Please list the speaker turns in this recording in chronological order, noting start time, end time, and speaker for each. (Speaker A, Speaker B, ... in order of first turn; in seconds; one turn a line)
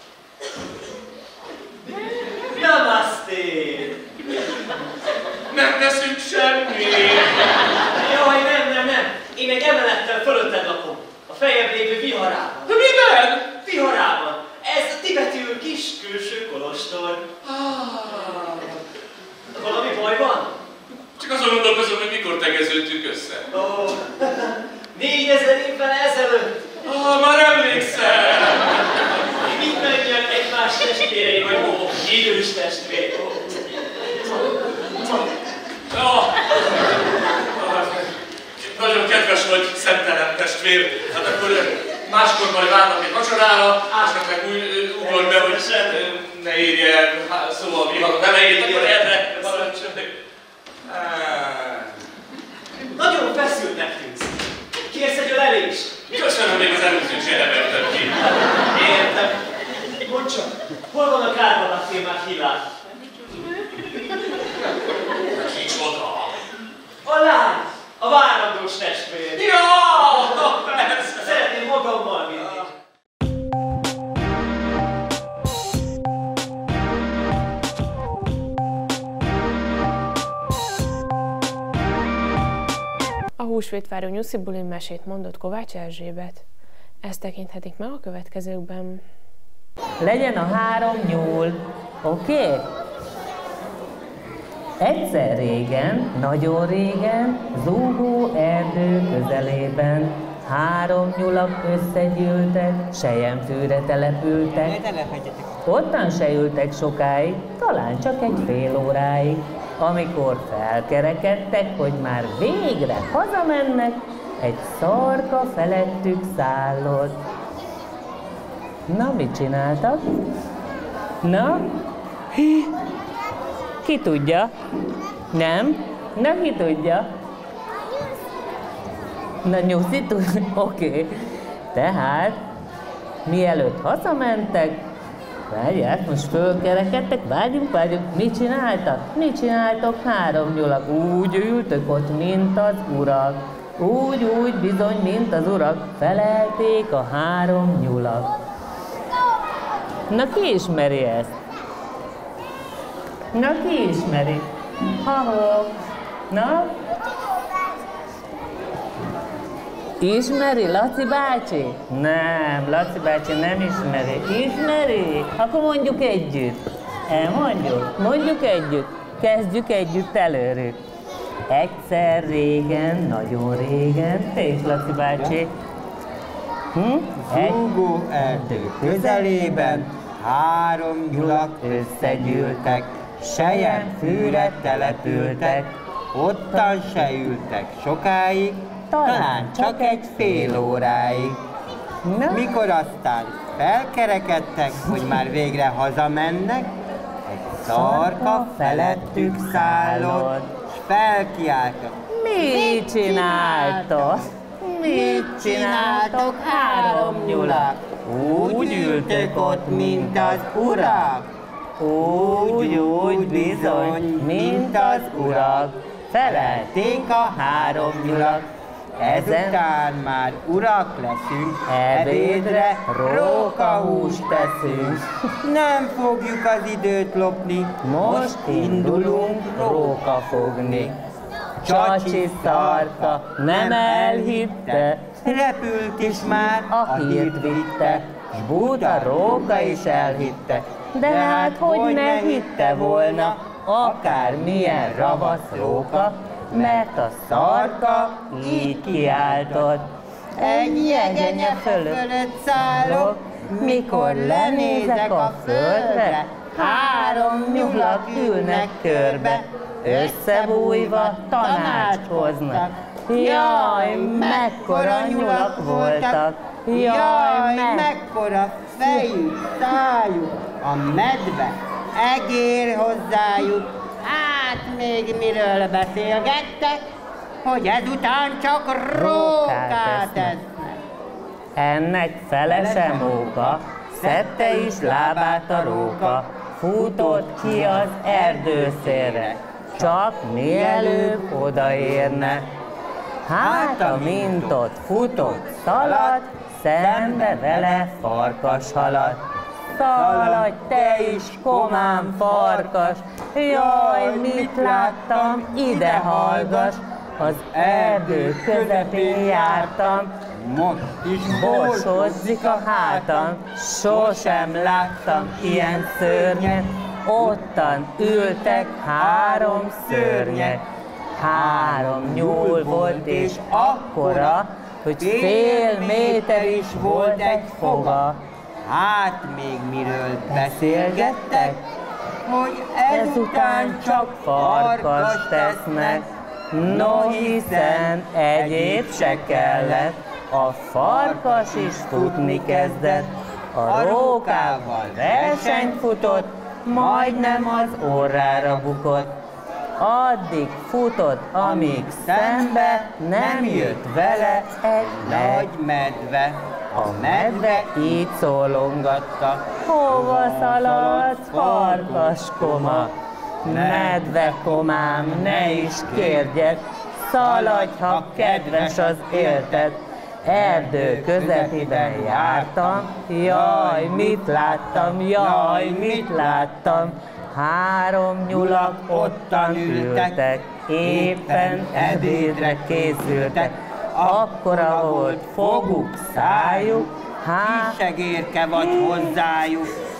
Speaker A: 2.5-4.0
Speaker B: 5.5-7.6
Speaker A: 7.9-12.8
Speaker B: 12.7-13.5
Speaker A: 13.6-17.3
Speaker B: 17.4-18.6
Speaker A: 19.5-20.5
Speaker B: 21.2-23.4
Speaker A: 23.5-26.5
Speaker B: 26.8-28.8
Speaker A: 29.4-33.2
Speaker B: 29.4-30.0
Speaker B: 31.3-32.1
Speaker B: 34.9-35.2
Speaker B: 35.9-36.7
Speaker B: 37.5-50.1
Speaker A: 45.0-46.0
Speaker A: 48.5-49.6
Speaker B: 50.9-51.9
Speaker A: 52.9-54.4
Speaker A: 54.9-56.0
Speaker B: 56.1-58.2
Speaker A: 58.7-59.3
Speaker A: 60.0-62.6
Speaker B: 65.3-66.4
Speaker A: 67.0-72.6
Speaker B: 69.3-71.4
Speaker C: 83.4-86.5
Speaker C: 87.0-89.0
Speaker D: 90.0-92.7
Speaker D: 94.8-104.8
Speaker E: 104.5-105.6
Speaker D: 105.7-117.2
Speaker D: 118.9-120.0
Speaker D: 121.2-121.7
Speaker D: 122.3-122.7
Speaker D: 123.8-124.5
Speaker D: 125.3-127.1
Speaker D: 129.4-131.2
Speaker D: 131.7-132.4
Speaker D: 133.2-134.8
Speaker D: 135.5-148.3
Speaker D: 150.1-151.4
Speaker D: 153.3-154.5
Speaker D: 155.0-155.8
Speaker D: 156.3-156.7
Speaker D: 160.0-170.8
Speaker D: 171.5-175.5
Speaker E: 175.1-175.4
Speaker D: 176.7-177.7
Speaker E: 177.2-191.4
Speaker D: 178.2-179.8
Speaker D: 181.1-185.7
Speaker D: 186.5-186.9
Speaker D: 188.9-190.6
Speaker D: 192.0-192.4
Speaker E: 192.3-196.7
Speaker E: 197.3-204.3
Speaker D: 197.6-200.5
Speaker D: 202.1-211.1
Speaker E: 204.8-211.3
Speaker D: 211.8-218.4
Speaker E: 212.0-215.7
Speaker E: 216.2-218.4
Speaker E: 219.0-230.9
Speaker D: 219.0-219.6
Speaker D: 221.7-225.0
Speaker D: 227.8-230.9
Speaker E: 231.6-249.7
Speaker D: 231.6-235.3
Speaker D: 236.7-240.4
Speaker D: 240.9-252.0
Speaker E: 250.3-276.8
Speaker D: 252.6-267.9
Speaker E: 277.4-280.8
Speaker D: 278.9-280.3
Speaker D: 281.6-292.4
Speaker E: 282.5-292.4
Speaker D: 293.3-299.2
Speaker E: 293.4-296.2
Speaker E: 296.8-299.1
Speaker D: 299.7-310.1
Speaker E: 299.9-320.6
Speaker D: 311.2-320.6
Speaker D: 321.2-328.2
Speaker E: 321.2-324.4
Speaker E: 325.0-328.0
Speaker E: 328.6-331.6
Speaker D: 330.3-331.6
Speaker E: 332.2-336.0
Speaker D: 332.9-349.1
Speaker E: 336.6-339.9
Speaker E: 340.8-343.1
Speaker E: 343.6-349.1
Speaker D: 349.8-355.5
Speaker E: 351.4-358.0
Speaker D: 356.8-359.0
Speaker E: 358.6-362.9
Speaker D: 359.6-362.9
Speaker D: 363.4-387.8
Speaker E: 363.4-366.6
Speaker E: 367.1-369.7
Speaker E: 370.3-376.9
Speaker E: 378.3-380.2
Speaker E: 380.8-389.7
Speaker D: 388.5-389.2